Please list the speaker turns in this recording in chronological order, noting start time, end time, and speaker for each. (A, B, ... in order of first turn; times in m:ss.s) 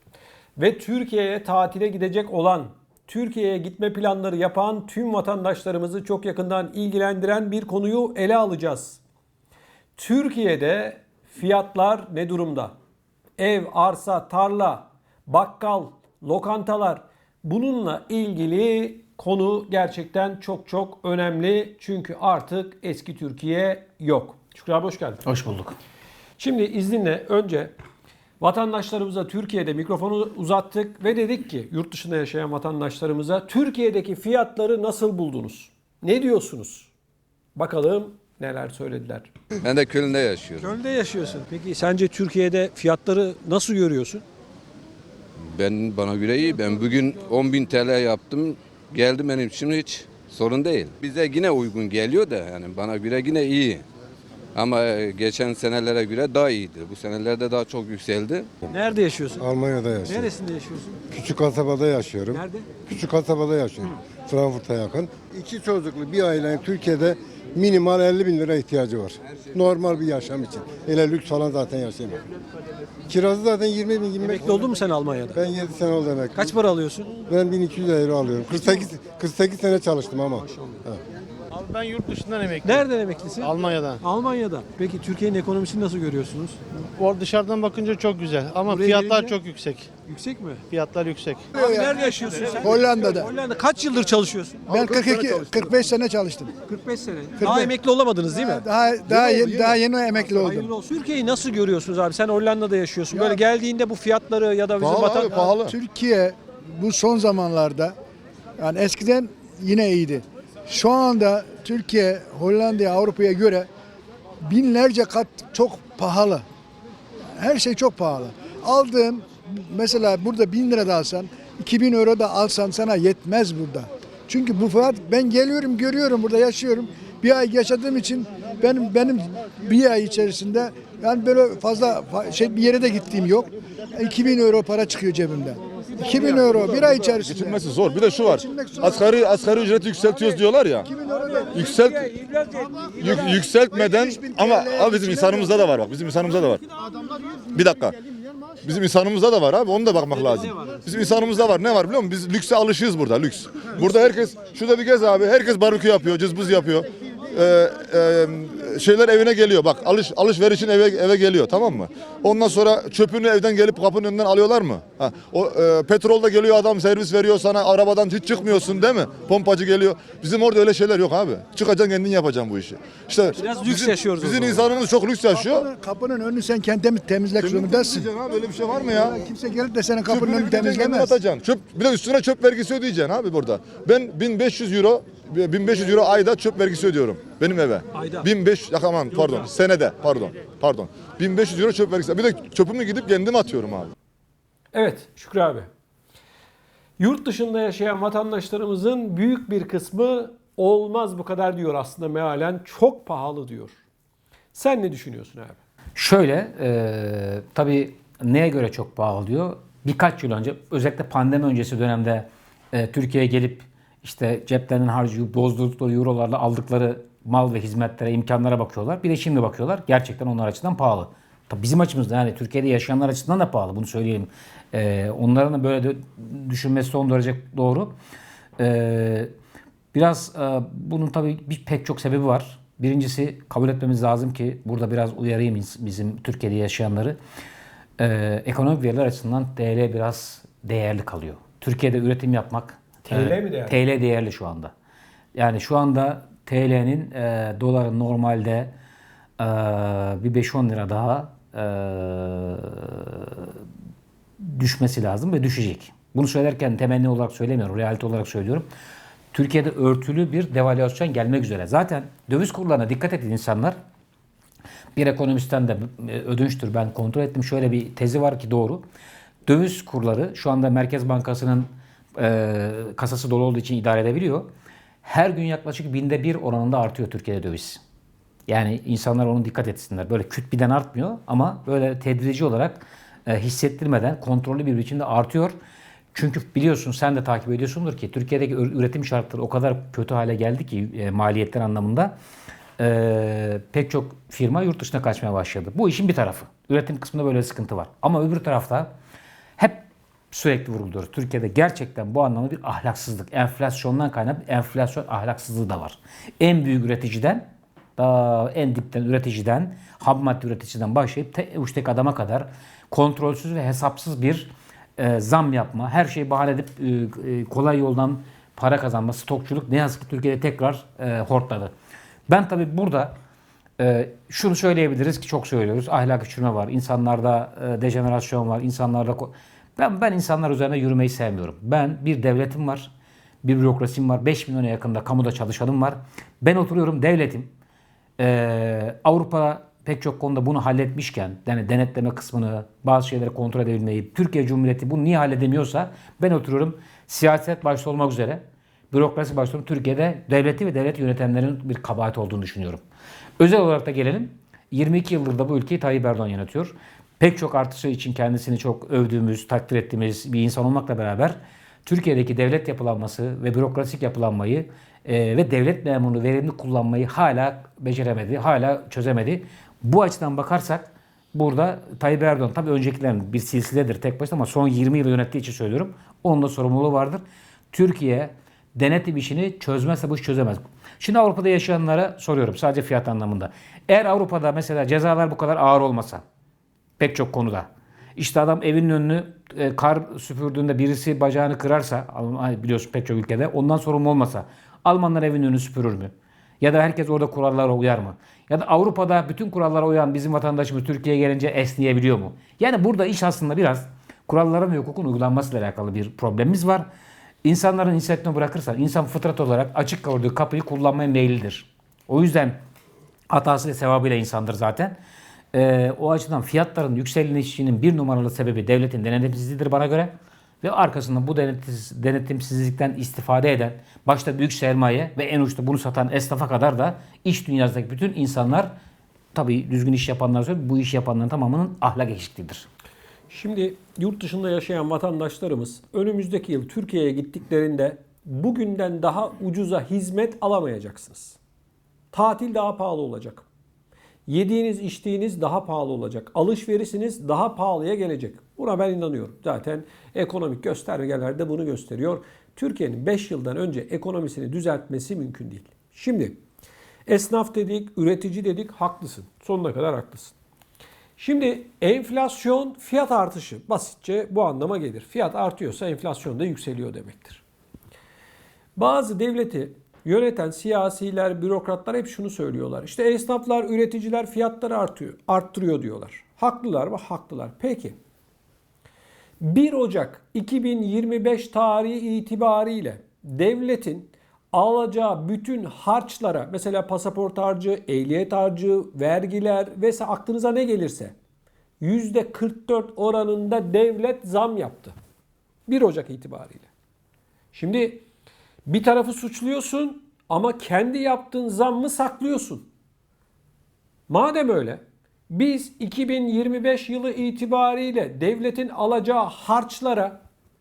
0:00.6-0:09.0 A
0:10.0-0:12.7 A
0:13.4-0:25.2 A
0:25.2-0:25.8 B
0:26.4-0:27.7 A
0:28.4-0:36.9 A
0:37.6-0:39.3 A
0:39.6-0:40.7 C
0:40.6-0:44.2 A
0:45.4-0:53.8 C
0:54.5-0:58.5 C
0:58.7-0:59.5 A
0:59.4-1:00.3 D
1:00.0-1:01.0 A
1:01.1-1:12.2 D
1:02.3-1:02.7 A
1:13.1-1:14.7 D
1:14.2-1:15.4 A
1:15.3-1:16.5 D
1:16.3-1:17.1 A
1:17.3-1:21.0 D
1:18.5-1:18.9 A
1:21.5-1:22.8 E
1:22.6-1:26.6 A
1:23.4-1:24.0 E
1:26.8-1:29.9 E
1:28.6-1:29.4 A
1:30.0-1:30.7 A
1:30.7-1:31.5 E
1:31.5-1:35.7 A
1:31.5-1:32.0 F
1:32.6-1:33.3 F
1:34.7-1:36.5 F
1:36.6-1:45.3 A
1:37.4-1:37.7 F
1:38.3-1:40.7 F
1:44.8-1:45.7 G
1:45.2-1:47.9 F
1:48.6-1:53.7 F
1:54.4-1:56.4 F
1:57.4-2:19.1 F
2:17.2-2:20.9 G
2:20.8-2:21.7 F
2:21.5-2:22.1 G
2:21.7-2:23.1 A
2:23.0-2:26.6 G
2:23.5-2:25.6 F
2:27.5-2:28.0 G
2:28.6-2:55.7 G
2:30.3-2:30.8 A
2:53.3-2:54.7 A
2:55.3-2:58.1 F
2:57.4-2:59.2 G
2:58.8-3:01.2 F
3:00.0-3:13.9 G
3:07.9-3:08.3 A
3:09.1-3:09.5 A
3:14.7-3:15.7 A
3:17.0-3:23.8 A
3:24.5-3:25.6 A
3:26.0-3:47.9 B
3:48.6-3:49.3 B
3:49.9-3:57.2 B
3:58.0-4:04.7 B
4:03.0-4:03.8 A
4:05.3-4:08.7 B
4:09.4-4:13.5 B
4:14.4-4:18.7 B
4:19.3-4:23.8 B
4:25.0-4:28.8 B
4:29.4-4:34.5 B
4:35.0-4:37.8 B
4:38.5-4:45.6 B
4:46.1-4:52.1 B
4:52.8-4:58.9 B
4:59.6-5:21.7 B
5:22.3-5:23.1 B
5:23.8-5:32.9 B
5:33.4-5:37.5 B
5:38.2-5:52.8 B
5:53.4-6:26.2 B
6:27.0-6:46.8 B
6:47.4-6:52.6 B
6:53.3-6:54.9 B
6:55.5-7:08.7 B
7:09.3-7:12.7 B
7:13.3-7:21.4 A
7:22.1-7:23.4 A
7:24.3-7:36.4 A
7:37.1-7:40.3 A
7:41.2-7:47.4 A
7:48.8-7:58.0 A
7:59.4-8:11.1 A
8:11.8-8:14.9 A
8:15.7-8:16.7 A
8:17.5-8:18.0 A
8:18.7-8:22.7 A
8:24.1-8:30.2 A